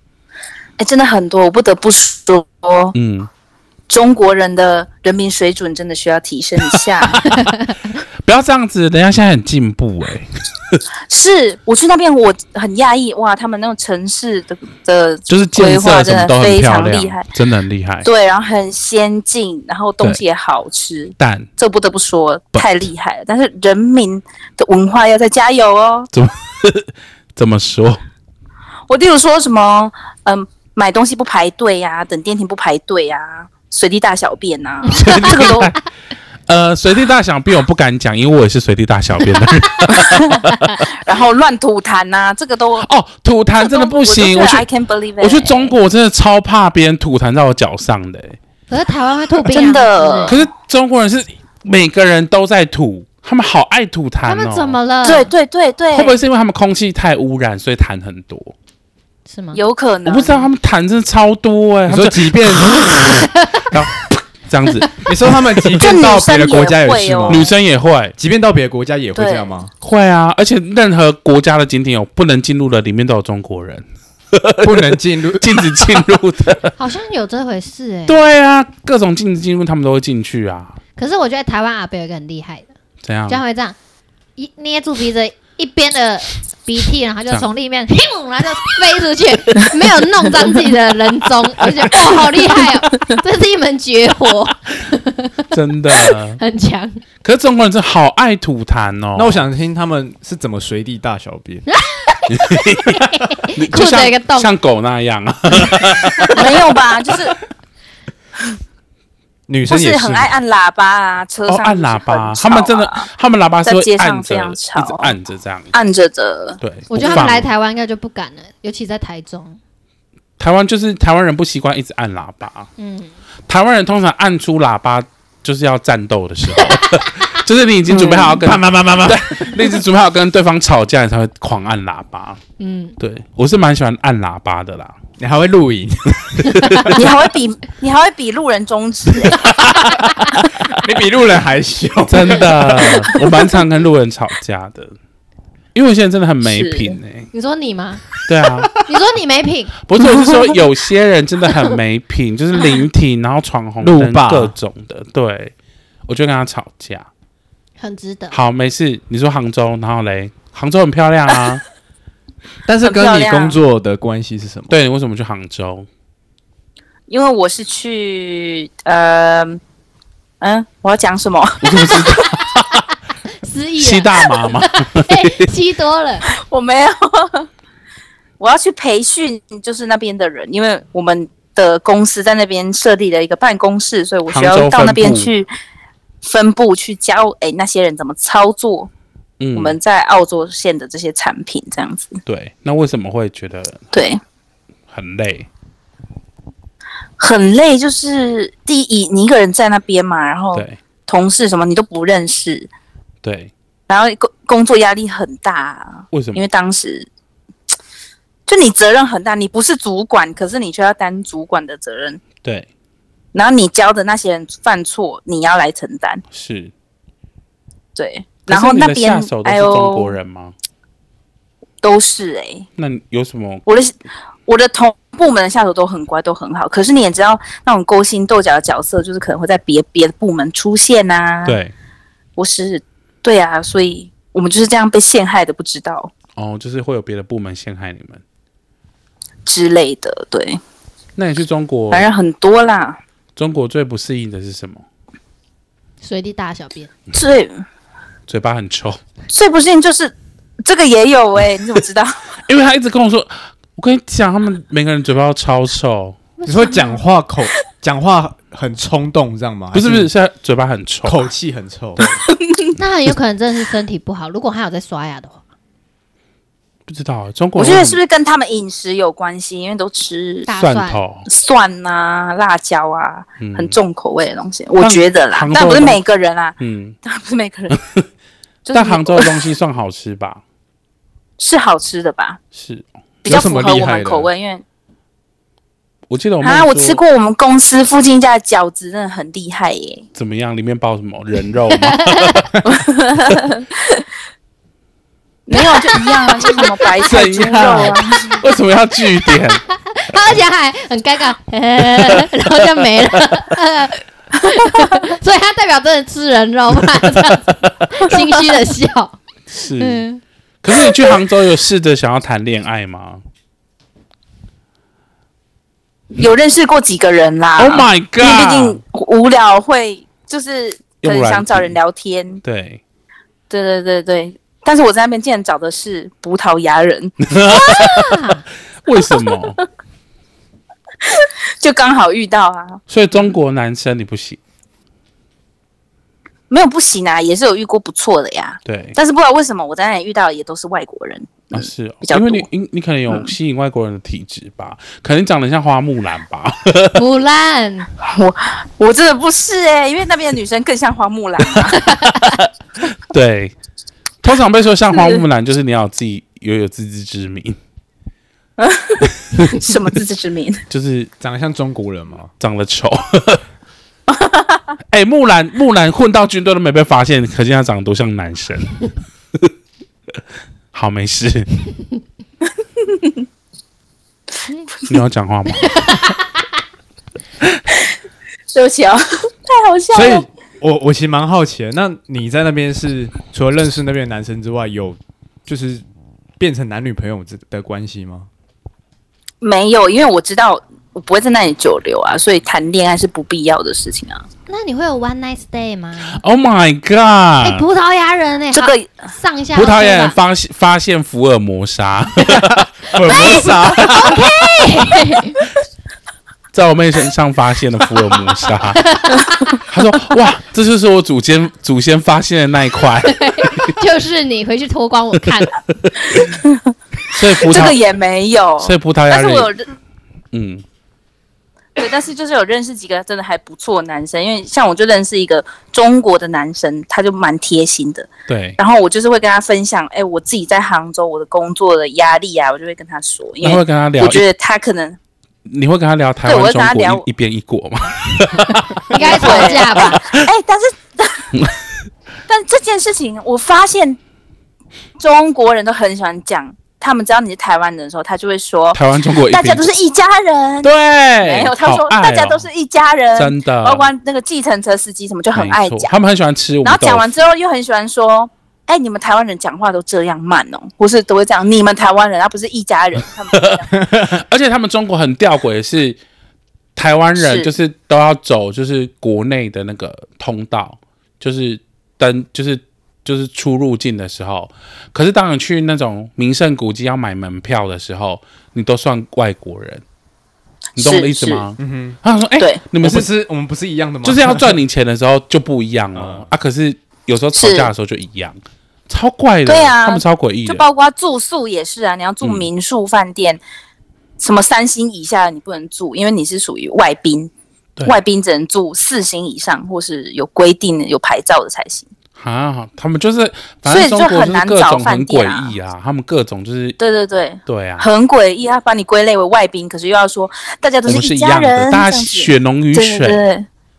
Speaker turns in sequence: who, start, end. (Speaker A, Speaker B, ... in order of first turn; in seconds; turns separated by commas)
Speaker A: 0.8-2.9, Speaker B: 2.9-3.3, Speaker A: 3.9-7.2, Speaker B: 8.2-10.8, Speaker A: 11.1-17.3, Speaker B: 15.3-18.1, Speaker A: 18.0-26.1, Speaker B: 21.2-21.5, Speaker B: 26.1-28.0, Speaker A: 28.9-35.7, Speaker B: 34.9-35.8, Speaker C: 35.0-35.6, Speaker B: 36.5-40.9, Speaker A: 40.0-40.4, Speaker A: 41.0-42.9, Speaker B: 42.8-44.7, Speaker A: 43.6-45.7, Speaker B: 45.2-48.4, Speaker C: 48.7-50.4, Speaker A: 49.4-50.4, Speaker B: 50.3-54.8, Speaker C: 54.2-55.3, Speaker A: 55.0-56.1, Speaker B: 55.9-58.5, Speaker C: 59.3-59.6, Speaker A: 59.5-60.5, Speaker B: 60.0-65.4, Speaker D: 61.9-63.1, Speaker D: 65.0-67.5, Speaker A: 65.8-67.5, Speaker B: 67.3-68.2, Speaker D: 68.2-69.7, Speaker A: 69.2-69.5, Speaker B: 69.8-76.7, Speaker D: 74.6-76.0, Speaker C: 76.8-78.2, Speaker B: 78.1-80.8, Speaker C: 81.0-82.7, Speaker B: 83.0-83.4, Speaker C: 83.3-83.8, Speaker C: 84.4-97.0, Speaker B: 95.5-96.4, Speaker B: 97.2-99.5, Speaker D: 99.2-101.7, Speaker C: 101.7-104.5, Speaker B: 102.3-103.0, Speaker B: 103.5-106.5, Speaker A: 106.3-107.3, Speaker D: 109.5-110.3, Speaker A: 109.7-113.1, Speaker B: 111.5-115.7, Speaker A: 113.6-115.1, Speaker A: 115.7-117.3, Speaker B: 116.6-117.5, Speaker C: 116.9-119.6, Speaker B: 120.4-122.7, Speaker C: 122.8-123.1, Speaker B: 123.5-132.4, Speaker C: 126.7-127.0, Speaker A: 128.0-128.4, Speaker D: 128.0-129.7, Speaker C: 132.6-133.0, Speaker B: 133.0-135.0, Speaker D: 135.2-137.1, Speaker A: 136.9-139.5, Speaker D: 139.3-143.3, Speaker B: 142.1-144.9, Speaker B: 145.7-147.3, Speaker A: 146.4-147.0, Speaker C: 147.3-148.2, Speaker B: 148.2-148.8, Speaker C: 148.8-149.8, Speaker B: 149.8-155.5, Speaker D: 153.8-154.5, Speaker B: 156.1-157.1, Speaker C: 157.8-158.4, Speaker B: 158.3-161.6, Speaker D: 162.7-164.8, Speaker A: 162.8-163.6, Speaker B: 164.7-165.9, Speaker A: 167.1-169.6, Speaker A: 170.4-172.1, Speaker B: 171.6-172.8, Speaker C: 173.4-176.3, Speaker B: 173.8-175.5, Speaker A: 176.3-177.5, Speaker A: 178.4-185.5, Speaker B: 184.3-185.3, Speaker A: 186.2-188.9, Speaker B: 189.4-189.8, Speaker A: 189.5-192.2, Speaker B: 192.3-193.9, Speaker A: 193.9-194.2, Speaker B: 194.9-195.5, Speaker A: 197.2-202.7, Speaker B: 203.2-203.5, Speaker A: 203.9-207.1, Speaker B: 206.1-206.5, Speaker A: 208.5-212.2, Speaker A: 213.3-216.2, Speaker B: 216.3-216.7, Speaker A: 218.0-220.1, Speaker B: 218.5-220.5, Speaker A: 221.8-222.7, Speaker B: 222.8-223.7, Speaker A: 223.7-231.6, Speaker B: 231.4-231.7, Speaker A: 232.4-236.1, Speaker B: 236.4-238.2, Speaker A: 239.5-240.6, Speaker B: 241.2-242.1, Speaker A: 241.9-243.0, Speaker B: 243.4-244.8, Speaker C: 246.0-246.9, Speaker A: 247.1-247.6, Speaker B: 248.3-249.0, Speaker A: 249.3-252.2, Speaker B: 252.5-256.2, Speaker C: 256.4-257.0, Speaker D: 256.5-260.1, Speaker B: 259.7-261.3, Speaker D: 261.1-262.2, Speaker A: 262.3-262.7, Speaker C: 262.8-265.4, Speaker B: 266.9-268.0, Speaker A: 267.6-270.5, Speaker C: 270.5-271.0, Speaker B: 270.5-271.3, Speaker A: 271.3-277.8, Speaker B: 273.4-273.8, Speaker B: 274.8-276.0, Speaker B: 276.6-277.0, Speaker B: 277.7-278.0, Speaker A: 278.7-279.4, Speaker B: 278.7-280.4, Speaker A: 281.4-282.4, Speaker B: 282.5-283.3, Speaker A: 283.2-284.6, Speaker D: 283.3-284.3, Speaker B: 286.1-287.0, Speaker A: 286.4-290.1, Speaker B: 290.1-292.5, Speaker C: 291.7-292.5, Speaker A: 292.6-294.0, Speaker A: 295.5-298.4, Speaker C: 295.5-296.9, Speaker B: 297.1-300.4, Speaker C: 299.3-309.2, Speaker B: 301.8-302.2, Speaker B: 307.0-307.3, Speaker B: 309.5-310.1, Speaker C: 309.8-310.2, Speaker B: 310.6-313.2, Speaker A: 316.2-322.4, Speaker B: 317.6-318.8, Speaker B: 321.0-321.8, Speaker B: 322.4-322.8, Speaker A: 323.5-327.2, Speaker B: 327.2-328.2, Speaker C: 327.5-328.4, Speaker B: 328.8-329.6, Speaker A: 331.1-332.8, Speaker B: 332.9-334.4, Speaker A: 336.5-342.5, Speaker B: 338.6-339.0, Speaker B: 341.5-347.0, Speaker C: 346.9-347.9, Speaker A: 348.0-351.8, Speaker B: 351.7-353.6, Speaker B: 354.2-357.6, Speaker A: 354.9-355.2, Speaker A: 358.6-360.6, Speaker B: 359.3-359.6, Speaker B: 360.7-361.1, Speaker D: 361.2-362.3, Speaker B: 362.4-363.4, Speaker A: 364.1-364.6, Speaker B: 364.9-368.8, Speaker B: 370.7-371.6, Speaker B: 374.9-375.9, Speaker A: 378.5-380.2, Speaker D: 379.9-385.8, Speaker D: 386.4-388.3, Speaker A: 389.4-394.2, Speaker C: 394.5-396.2, Speaker B: 396.1-397.6, Speaker C: 397.4-400.2, Speaker A: 398.5-398.9, Speaker B: 399.6-402.6, Speaker D: 402.3-404.5, Speaker C: 403.1-405.4, Speaker B: 406.5-408.9, Speaker C: 408.9-409.6, Speaker B: 409.7-413.7, Speaker C: 413.1-415.6, Speaker B: 415.4-416.2, Speaker A: 416.1-419.7, Speaker B: 417.1-417.8, Speaker B: 418.6-419.5, Speaker B: 420.3-420.6, Speaker A: 421.8-435.0, Speaker B: 428.3-428.6, Speaker B: 433.4-434.2, Speaker B: 435.5-440.2, Speaker A: 436.2-437.1, Speaker C: 438.9-440.0, Speaker A: 438.9-441.3, Speaker A: 442.3-444.0, Speaker A: 445.0-455.9, Speaker B: 448.7-449.7, Speaker B: 450.6-452.5, Speaker B: 453.2-453.9, Speaker B: 455.3-457.1, Speaker A: 456.6-463.7, Speaker B: 463.3-466.0, Speaker D: 463.7-464.1, Speaker B: 466.8-479.8, Speaker A: 467.2-467.5, Speaker B: 480.8-483.1, Speaker A: 480.8-481.5, Speaker D: 481.6-482.0, Speaker D: 482.8-484.6, Speaker B: 484.0-490.6, Speaker D: 485.9-486.3, Speaker A: 487.4-487.7, Speaker A: 489.5-493.4, Speaker A: 494.2-497.3, Speaker A: 497.8-501.9, Speaker B: 502.2-506.8, Speaker A: 503.7-505.5, Speaker A: 506.8-513.5, Speaker B: 507.5-507.9, Speaker B: 510.9-513.2